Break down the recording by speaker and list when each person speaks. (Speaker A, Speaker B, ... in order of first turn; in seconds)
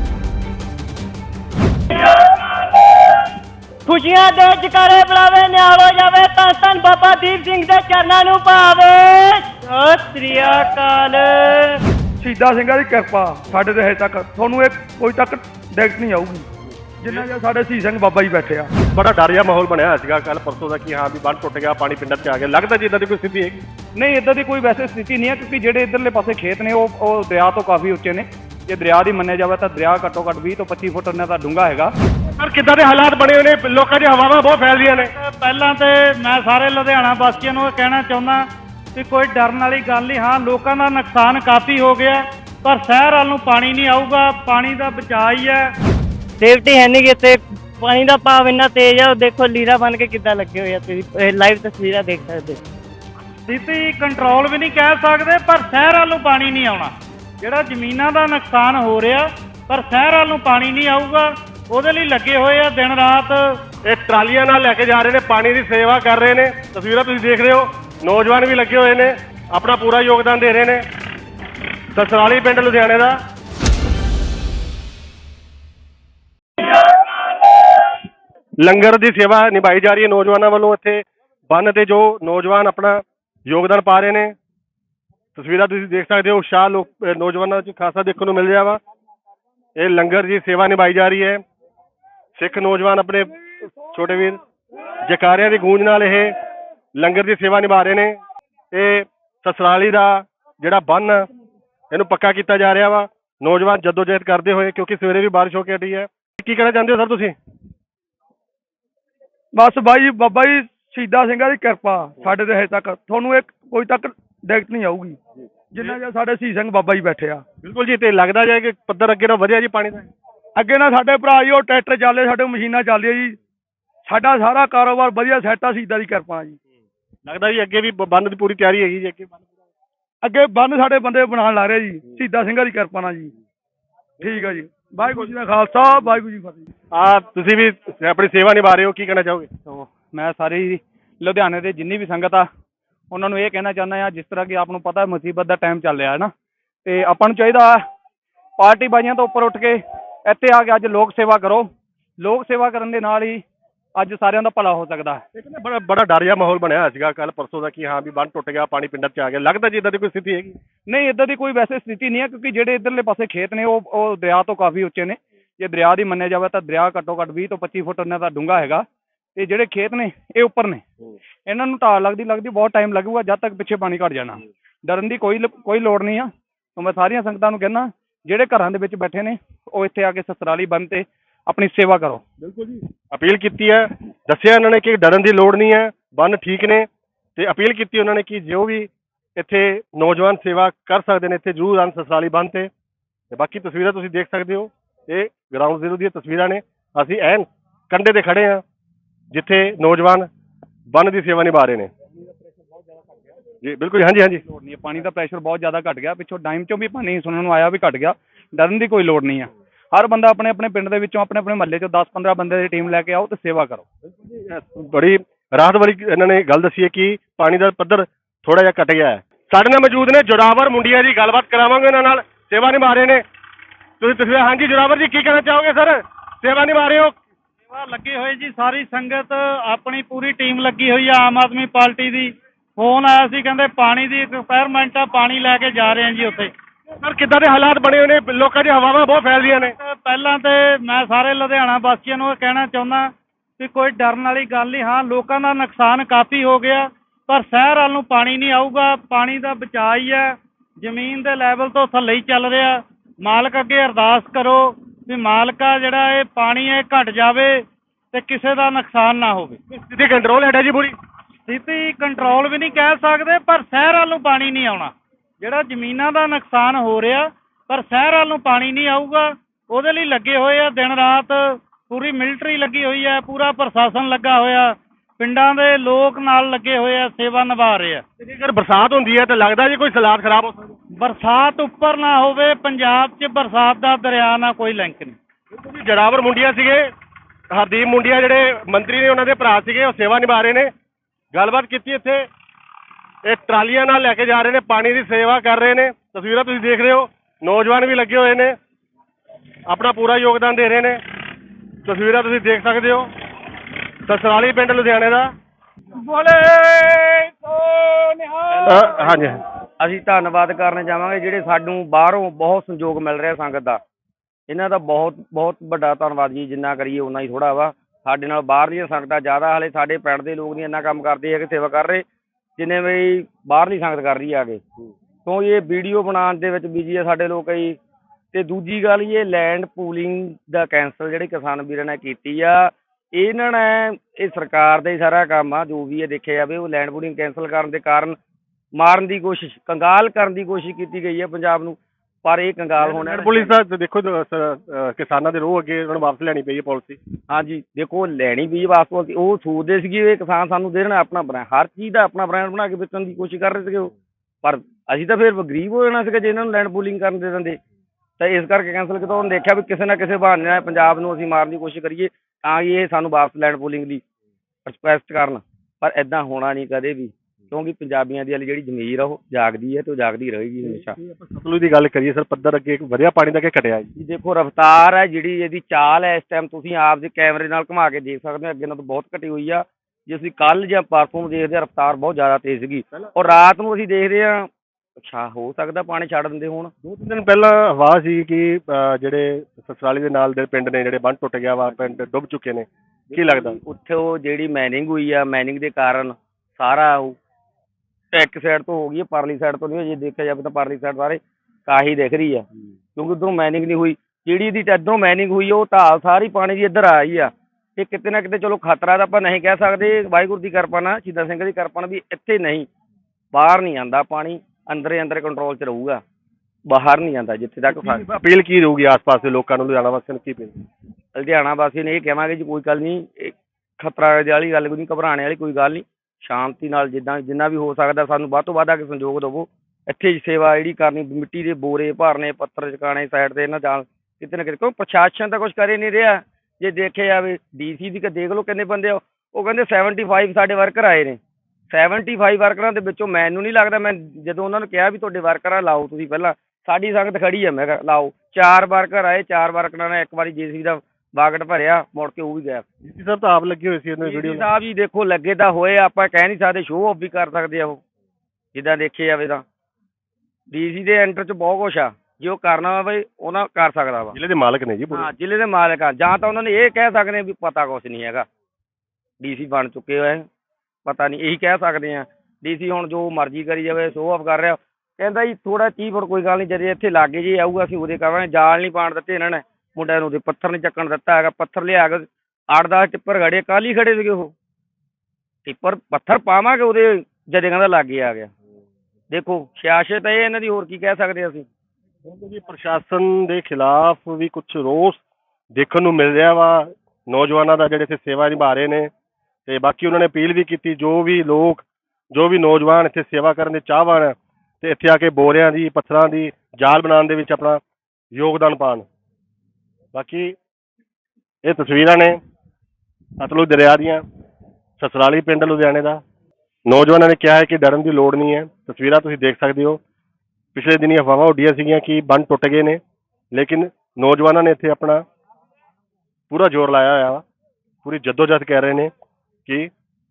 Speaker A: 3.9-11.7, 46.4-52.6
Speaker B: 12.2-16.4, 17.0-18.7, 109.5-115.2, 115.7-117.4, 120.6-123.3, 124.0-126.5, 130.2-133.3, 134.2-136.6
Speaker C: 18.9-23.6, 32.4-35.1, 63.9-70.8, 71.9-73.2, 78.6-84.3, 85.3-88.8, 89.8-91.4, 92.3-93.3, 93.9-94.4, 95.0-96.3, 97.0-98.2, 98.7-101.3, 101.9-107.3, 117.6-120.1, 127.2-129.3, 136.9-139.5, 155.3-160.6, 182.4-192.7, 193.3-198.6, 199.3-200.3, 200.9-201.9, 203.6-204.4, 214.3-223.2, 224.0-227.1, 237.0-239.7, 259.7-260.9, 278.2-280.7, 285.6-286.9, 287.5-290.7, 291.3-292.2, 293.2-298.5, 299.7-301.0, 301.8-303.1, 304.1-305.3, 308.6-309.4, 342.8-347.0, 371.0-373.9, 386.8-393.6, 417.7-420.6, 452.8-454.4, 464.1-465.1, 492.1-495.0, 495.5-498.9, 499.5-507.6, 508.1-508.9, 509.9-510.3, 511.4-512.2, 513.2-514.0, 514.8-516.0, 516.7-519.8, 520.5-522.8, 523.3-525.0, 526.3-527.2, 527.8-528.9, 529.5-529.7
Speaker D: 23.9-31.9, 139.6-142.5, 143.1-146.3, 146.8-147.8, 148.6-153.4, 153.9-155.2, 160.9-170.8, 171.4-182.2, 204.5-213.8
Speaker E: 34.9-38.4, 38.9-45.6, 53.5-63.5, 227.7-236.5, 239.8-259.6, 261.5-278.0, 280.9-285.2
Speaker F: 309.8-313.8, 314.5-322.0, 322.6-324.6, 325.2-327.8, 328.3-338.2, 338.7-343.5, 347.3-353.9, 354.4-357.6, 358.2-364.0, 364.6-370.9, 373.9-384.5, 385.0-386.7, 393.1-397.2, 398.1-412.7, 413.3-416.0, 416.6-418.0, 421.1-441.2, 441.7-452.6, 454.0-457.8, 458.5-459.4, 460.5-464.2, 464.9-468.3, 469.2-470.2, 470.9-484.3, 485.4-488.3, 489.1-491.4